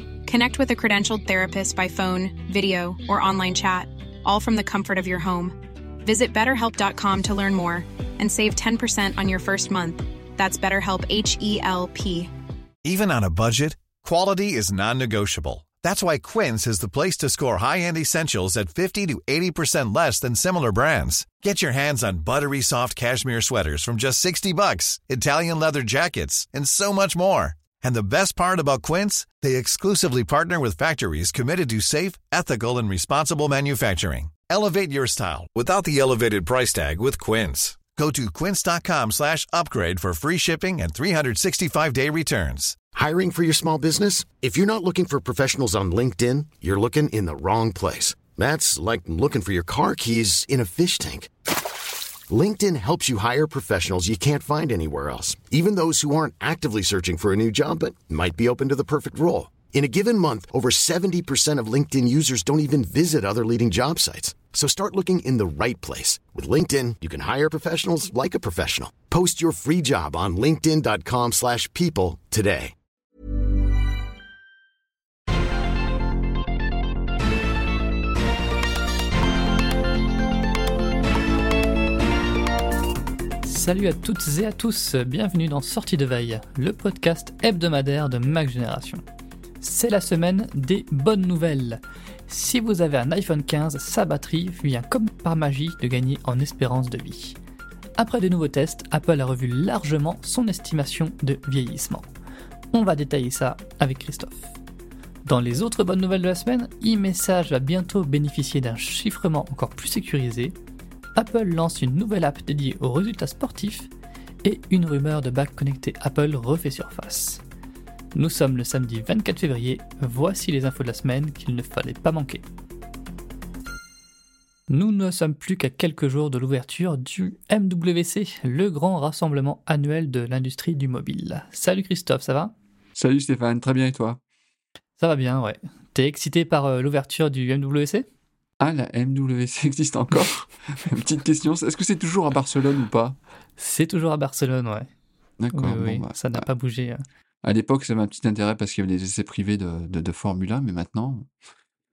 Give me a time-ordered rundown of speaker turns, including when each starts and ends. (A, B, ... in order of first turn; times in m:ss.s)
0:00.2-0:12.3 A
0:12.8-0:42.8 B
0:42.9-0:51.3 C
0:52.3-1:12.7 C
1:23.4-1:29.0 D
1:29.6-1:37.4 D
1:38.0-1:42.1 D
1:42.7-1:44.5 D
1:45.2-1:50.5 D
1:51.2-1:53.9 D
1:54.4-1:57.4 D
1:58.1-2:02.4 D
2:04.7-2:12.5 D
2:13.0-2:14.2 E
2:15.0-2:18.0 D
2:18.6-2:23.2 E
2:23.6-2:24.9 D
2:25.4-2:26.5 E
2:25.5-2:27.0 D
2:27.4-2:31.3 E